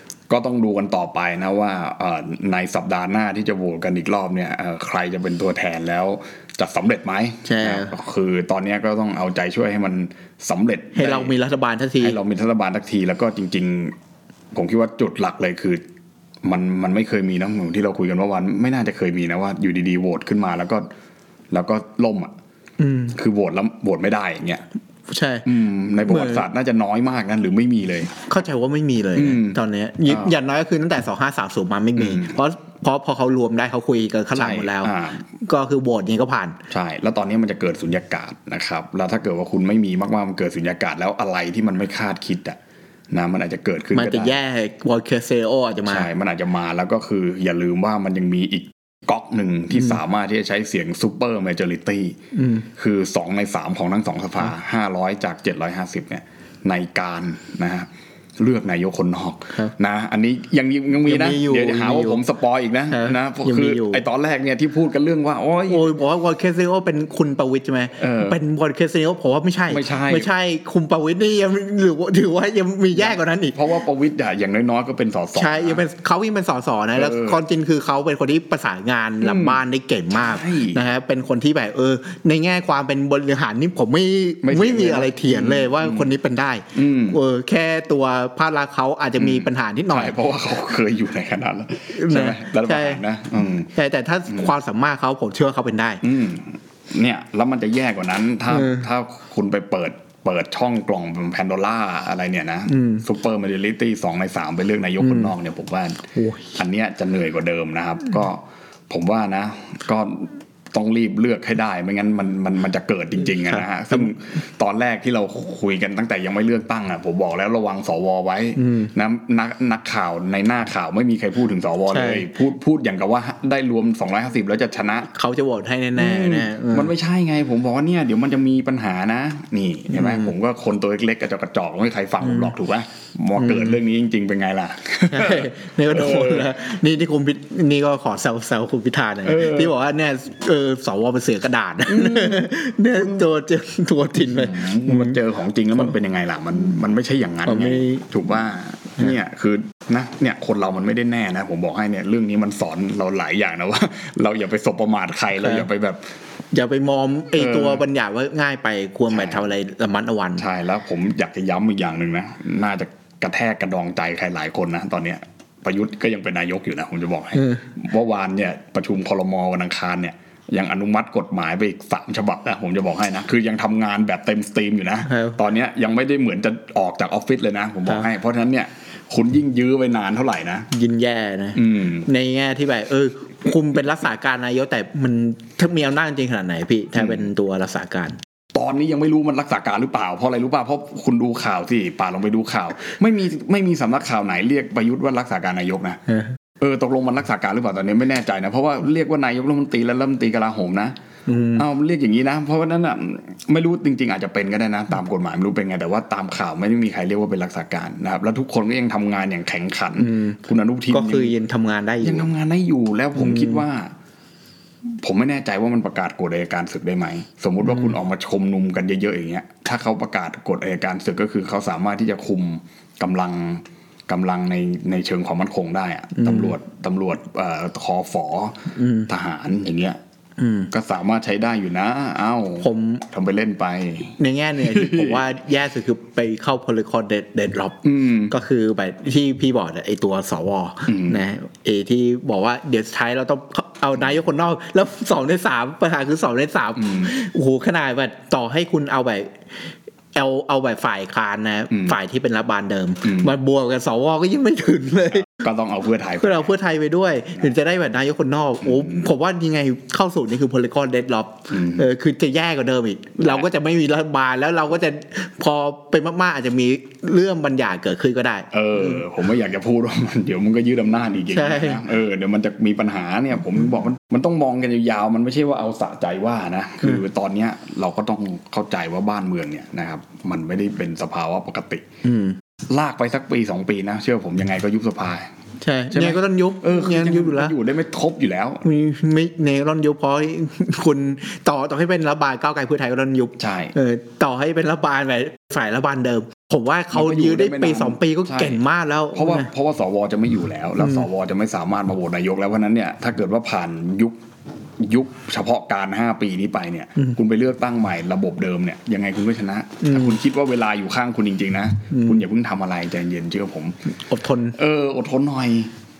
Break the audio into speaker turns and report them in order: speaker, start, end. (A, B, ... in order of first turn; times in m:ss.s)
0:00.3-0:11.3 A
0:07.4-0:07.9 B
0:10.9-0:12.2 B
0:12.0-0:13.9 A
0:14.5-0:15.8 A
0:16.4-0:20.9 A
0:21.5-0:22.3 A
0:22.8-0:23.2 B
0:23.1-0:24.6 A
0:25.1-0:25.5 B
0:25.4-0:28.2 A
0:26.0-0:26.4 B
0:28.3-0:36.6 B
0:29.1-0:30.3 A
0:32.0-0:32.4 A
0:34.3-0:35.2 A
0:36.7-0:42.6 A
0:43.1-0:44.3 A
0:43.9-0:46.1 B
0:45.9-0:52.2 A
0:52.3-0:52.7 B
0:52.8-1:05.9 A
1:01.0-1:02.2 B
1:02.9-1:04.0 B
1:05.7-1:13.6 B
1:08.0-1:08.4 A
1:09.7-1:10.3 A
1:13.0-1:15.8 A
1:15.4-1:30.2 B
1:17.0-1:17.4 A
1:19.2-1:19.6 A
1:20.1-1:20.8 A
1:24.4-1:26.1 A
1:26.7-1:27.2 A
1:29.2-1:33.7 A
1:31.9-1:33.0 B
1:33.7-1:36.0 B
1:36.0-2:05.1 A
1:38.5-1:38.8 B
1:42.7-1:43.0 B
1:45.0-1:45.3 B
1:46.1-1:46.6 B
1:53.3-1:54.1 B
1:58.6-1:58.9 B
2:01.9-2:02.3 B
2:05.1-2:06.9 B
2:06.0-2:16.5 A
2:09.9-2:10.3 B
2:12.2-2:12.5 B
2:13.4-2:13.8 B
2:15.1-2:25.2 B
2:19.2-2:19.8 A
2:21.8-2:23.2 A
2:24.2-2:36.0 A
2:27.4-2:28.1 B
2:35.4-2:35.6 B
2:36.5-2:40.4 B
2:37.4-2:37.8 A
2:39.1-2:39.5 A
2:40.4-3:00.7 A
2:47.4-2:47.6 B
2:55.0-2:55.4 B
3:00.7-3:08.2 B
3:01.5-3:02.1 A
3:07.0-3:07.2 A
3:08.5-3:16.0 A
3:16.6-3:20.9 A
3:21.3-3:21.6 B
3:21.5-3:31.3 A
3:30.0-3:32.3 B
3:32.0-3:33.9 A
3:33.2-3:33.6 B
3:35.0-3:50.0 A
3:46.1-3:46.5 B
3:48.7-3:49.1 B
3:50.4-3:50.7 B
3:50.7-3:55.3 A
3:52.6-3:53.0 B
3:54.2-4:09.3 B
3:57.8-3:58.3 A
4:00.9-4:01.2 A
4:06.8-4:07.1 A
4:10.1-4:15.2 B
4:11.7-4:12.0 A
4:13.0-4:13.3 A
4:15.1-4:16.5 A
4:16.2-4:29.0 B
4:18.6-4:19.1 A
4:21.5-4:21.8 A
4:28.5-4:41.8 A
4:31.3-4:31.8 B
4:42.0-4:42.4 B
4:42.7-4:45.3 A
4:45.6-4:47.5 B
4:45.9-4:48.6 A
4:48.6-4:59.5 B
4:53.4-4:53.7 A
4:56.9-4:58.6 A
4:59.1-5:04.2 A
5:00.8-5:01.1 B
5:04.8-5:13.8 A
5:09.8-5:10.2 B
5:11.9-5:12.2 B
5:13.9-5:14.6 B
5:14.6-5:15.7 A